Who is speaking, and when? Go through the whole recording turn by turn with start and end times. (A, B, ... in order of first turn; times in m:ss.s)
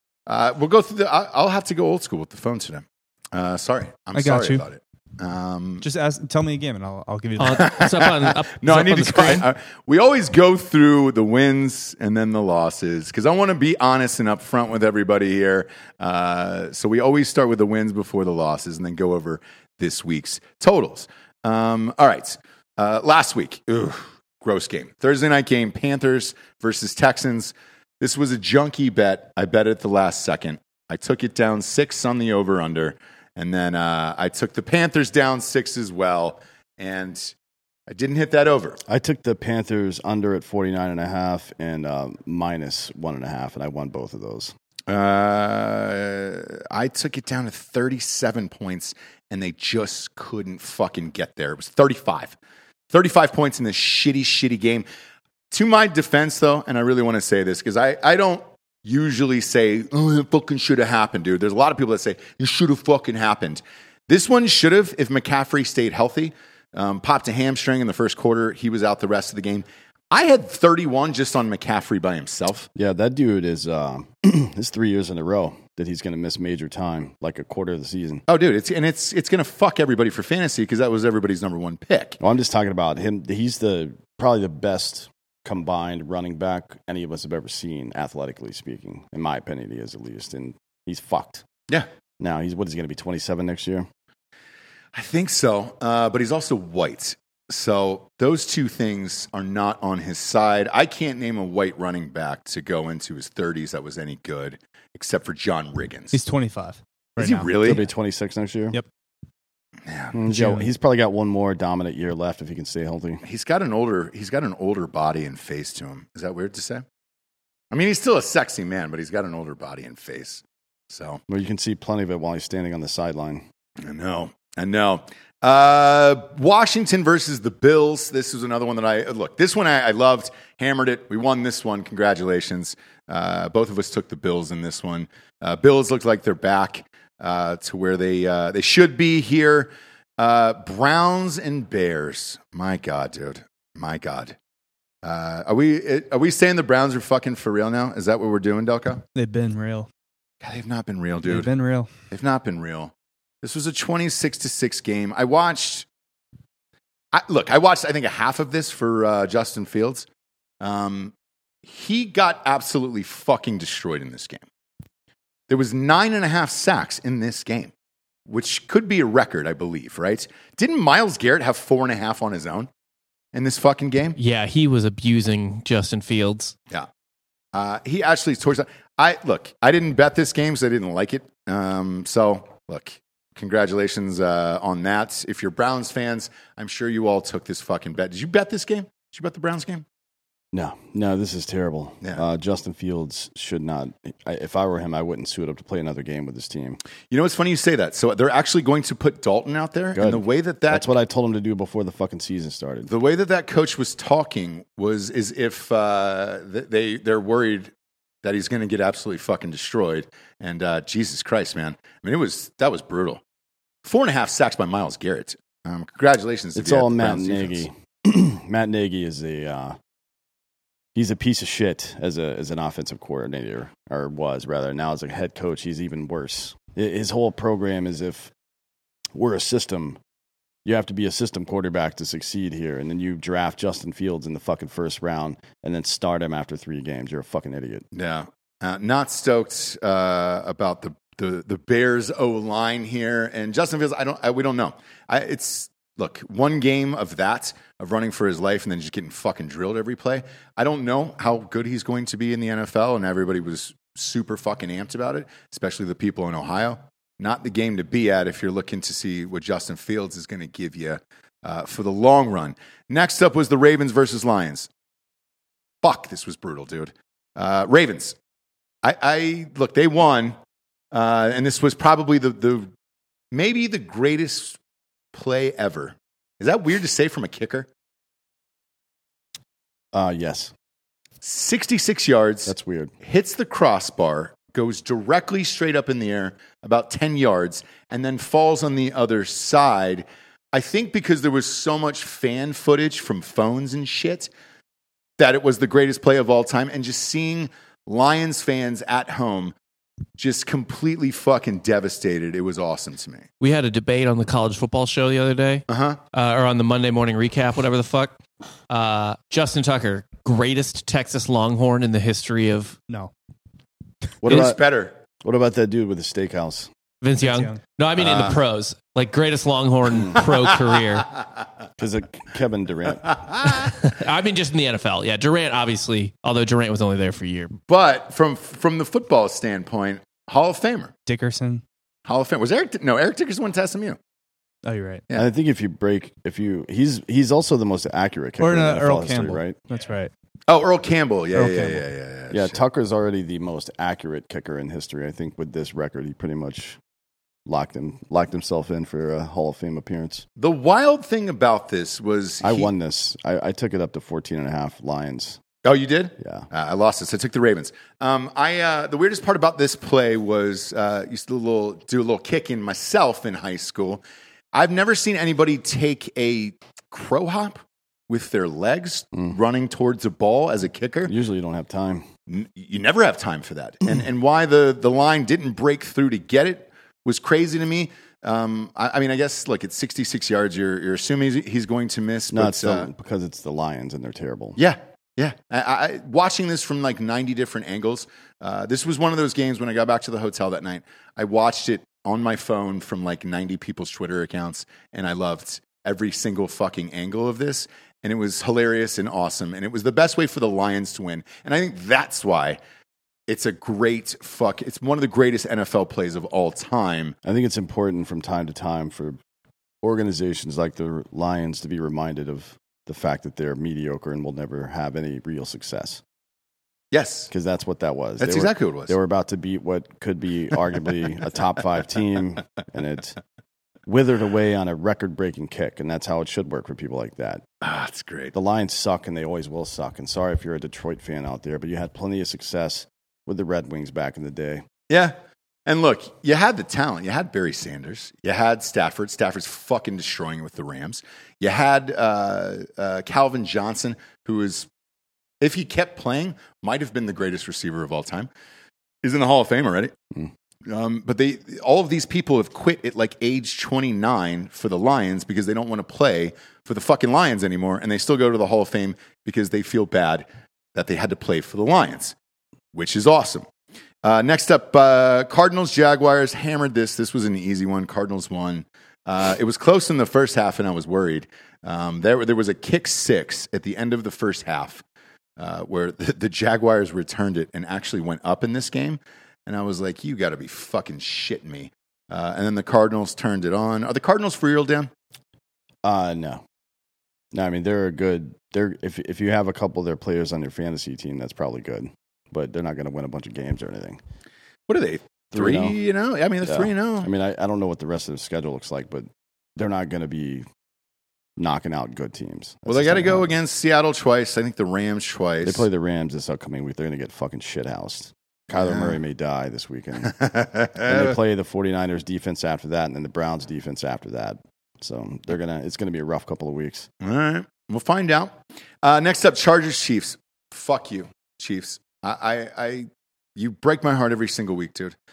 0:00.3-0:05.9 A
0:04.2-0:04.6 B
0:05.8-0:07.8 B
0:07.4-0:09.5 C
0:07.5-0:37.4 A
0:37.9-0:38.8 A
0:38.9-0:44.5 D
0:44.9-0:52.4 A
0:52.9-0:54.8 A
0:55.5-1:12.7 A
1:12.8-1:18.2 D
1:18.3-1:22.2 A
1:22.2-1:31.4 D
1:32.2-1:33.9 D
1:34.9-1:46.2 A
1:46.1-1:47.5 B
1:47.2-1:47.8 A
1:47.6-1:48.8 D
1:49.8-1:50.2 A
1:50.1-1:53.2 D
1:50.3-1:50.7 B
1:53.2-1:56.8 A
1:57.7-2:01.2 A
2:01.3-2:03.5 D
2:03.8-2:24.4 A
2:25.0-2:29.0 A
2:29.2-2:29.9 B
2:30.4-2:31.5 A
2:31.3-2:31.9 B
2:32.1-2:35.9 A
2:37.1-2:40.1 A
2:40.6-2:44.4 A
2:45.5-2:47.7 A
2:48.3-2:52.7 A
2:53.3-2:54.2 A
2:54.2-2:56.6 C
2:57.5-3:09.8 A
3:10.5-3:16.8 D
3:17.1-3:20.9 A
3:20.0-3:22.9 D
3:22.9-3:33.2 A
3:33.8-3:37.7 A
3:36.6-3:39.8 D
3:41.0-3:48.3 D
3:49.2-3:50.0 D
3:50.6-3:57.8 D
3:57.9-4:24.7 A
4:25.8-4:28.2 A
4:28.8-4:30.4 A
4:30.9-4:32.7 A
4:33.3-4:34.6 A
4:35.1-4:37.7 A
4:39.9-4:40.5 D
4:41.2-4:54.3 A
4:42.5-4:42.9 D
4:55.2-4:59.6 A
5:00.2-5:03.3 A
5:03.4-5:08.2 C
5:05.7-5:06.0 A
5:08.7-5:12.8 C
5:14.2-5:14.6 D
5:14.2-5:15.0 A
5:15.2-5:16.7 D
5:17.0-5:21.2 C
5:17.2-5:17.6 B
5:18.0-5:18.4 A
5:20.2-5:20.5 A
5:21.8-5:23.3 D
5:23.1-5:23.7 A
5:23.4-5:27.6 C
5:27.7-5:30.9 A
5:31.1-5:31.6 B
5:32.1-5:34.0 A
5:34.6-5:35.0 B
5:35.1-5:39.6 D
5:38.4-5:40.1 B
5:40.5-5:42.6 A
5:41.3-5:41.8 B
5:42.3-5:46.8 D
5:47.5-5:50.3 D
5:50.4-5:52.7 A
5:52.4-5:55.4 D
5:55.6-6:04.0 A
5:56.2-5:56.5 D
6:04.5-6:11.1 A
6:11.1-6:12.1 D
6:12.3-6:22.9 A
6:22.3-6:24.6 D
6:24.6-6:42.6 A
6:43.3-6:47.2 A
6:47.2-6:49.2 D
6:49.8-6:56.0 D
6:56.9-6:57.3 A
6:57.3-7:03.2 D
6:58.2-6:59.0 A
7:03.9-7:07.4 D
7:07.6-7:08.3 A
7:08.3-7:14.7 D
7:14.9-7:15.2 A
7:15.7-7:24.7 A
7:25.4-7:28.3 A
7:29.0-7:30.0 A
7:30.6-7:42.2 A
7:42.7-7:43.5 A
7:44.0-7:54.8 A
7:55.4-8:04.9 A
8:05.8-8:06.4 D
8:07.3-8:14.0 D
8:14.7-8:17.1 A
8:15.3-8:15.8 D
8:16.4-8:20.5 D
8:21.4-8:23.4 D
8:22.7-8:25.7 A
8:25.4-8:30.2 D
8:28.5-8:29.0 A
8:30.0-8:31.2 A
8:30.8-8:36.9 D
8:37.0-8:45.0 A